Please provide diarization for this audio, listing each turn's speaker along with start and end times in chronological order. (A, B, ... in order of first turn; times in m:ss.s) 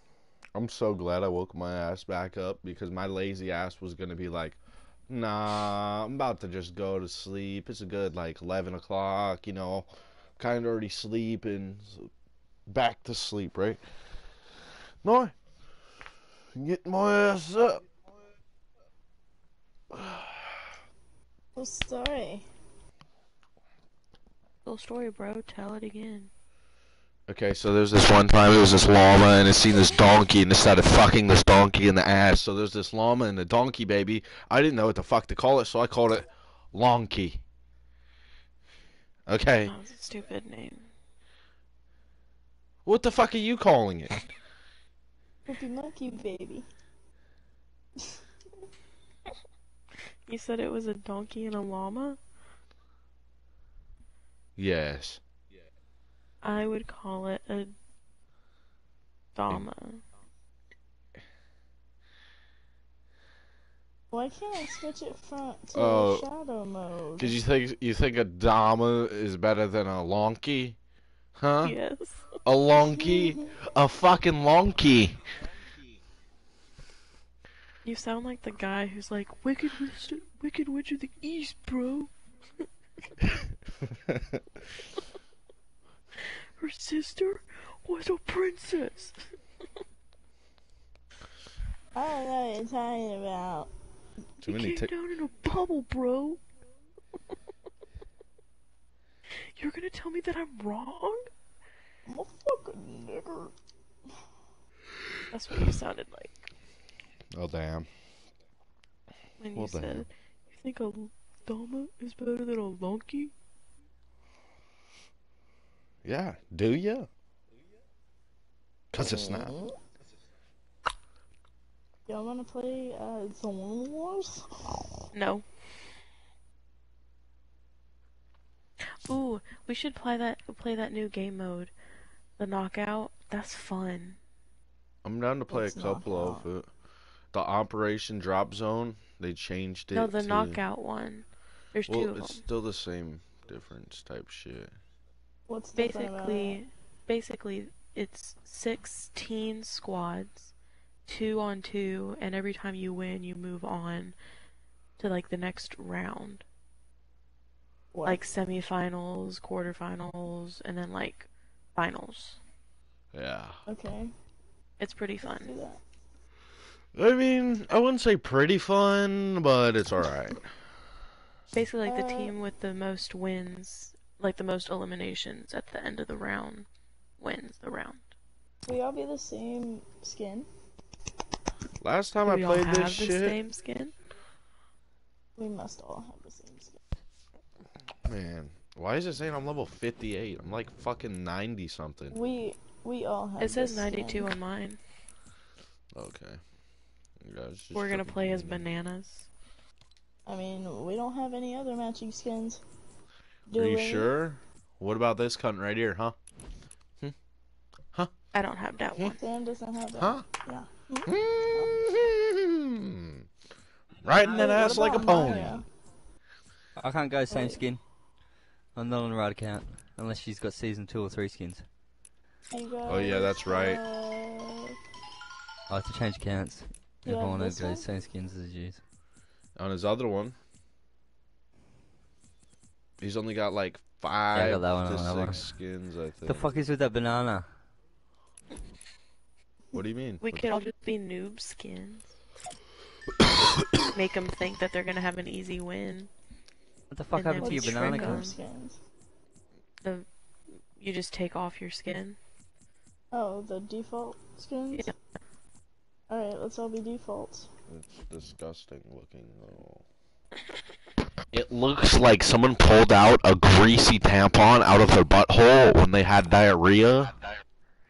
0:00.5-0:04.6 A
0:05.1-0:12.1 A
0:12.7-0:13.8 A
0:15.0-0:15.3 A
0:16.5-0:17.8 A
0:19.9-0:20.8 A
0:21.5-0:22.5 B
0:24.6-0:26.3 C
0:27.3-0:37.4 A
0:39.3-0:39.7 A
0:39.6-0:40.9 C
0:42.8-0:44.2 A
0:45.4-0:46.7 B
0:50.0-0:52.2 C
0:54.6-0:55.2 A
0:56.4-0:57.7 C
0:59.3-1:00.0 C
1:04.1-1:07.4 B
1:05.7-1:06.3 A
1:07.2-1:10.8 A
1:11.4-1:11.8 A
1:11.6-1:12.4 C
1:12.4-1:15.2 A
1:12.8-1:13.5 B
1:17.8-1:22.1 C
1:24.0-1:24.4 A
1:26.2-1:29.3 C
1:31.9-1:33.7 B
1:34.4-1:36.4 C
1:34.4-1:34.9 A
1:39.3-1:41.3 C
1:42.1-1:43.5 B
1:45.3-1:46.5 C
1:47.3-1:47.9 A
1:49.4-1:53.3 C
1:49.5-1:50.1 A
1:56.0-1:57.1 A
1:58.9-1:59.5 A
1:59.0-1:59.8 B
2:02.1-2:05.0 B
2:05.1-2:05.4 C
2:09.0-2:11.7 C
2:12.4-2:14.2 C
2:15.0-2:16.7 A
2:15.5-2:16.5 B
2:17.3-2:20.6 A
2:19.9-2:22.4 C
2:21.9-2:24.8 A
2:25.5-2:26.6 B
2:25.8-2:30.5 C
2:31.1-2:34.2 C
2:35.0-2:36.4 C
2:37.9-2:38.2 B
2:38.0-2:42.4 C
2:43.1-2:43.6 A
2:43.7-2:44.1 B
2:44.8-2:45.5 C
2:45.3-2:45.8 B
2:46.9-2:50.6 A
2:51.5-2:56.7 C
2:51.8-2:52.3 B
2:57.2-2:58.0 C
2:58.7-3:00.5 B
3:01.8-3:03.4 A
3:02.2-3:03.9 C
3:05.4-3:06.8 B
3:08.0-3:12.2 A
3:12.1-3:14.3 B
3:13.4-3:14.8 C
3:15.9-3:16.4 A
3:17.2-3:18.6 A
3:17.7-3:19.3 C
3:20.2-3:22.6 B
3:23.5-3:24.1 B
3:23.5-3:26.2 A
3:28.3-3:29.2 C
3:29.2-3:31.7 B
3:30.0-3:30.2 A
3:31.0-3:33.3 A
3:34.0-3:35.6 A
3:34.2-3:35.2 D
3:34.3-3:35.6 B
3:36.8-3:37.8 D
3:37.3-3:37.6 B
3:38.7-3:41.6 D
3:42.5-3:44.8 B
3:42.8-3:43.8 A
3:45.7-3:48.8 D
3:47.0-3:47.9 B
3:49.6-3:50.4 A
3:53.0-3:56.5 A
3:54.3-3:55.5 D
3:56.2-3:57.5 D
3:59.7-4:00.7 A
4:00.2-4:02.1 C
4:03.8-4:06.1 C
4:06.9-4:08.3 D
4:07.2-4:08.4 C
4:07.4-4:08.8 B
4:09.8-4:10.1 C
4:10.8-4:12.2 C
4:13.1-4:14.9 B
4:16.1-4:17.5 B
4:17.7-4:19.8 A
4:21.3-4:27.2 A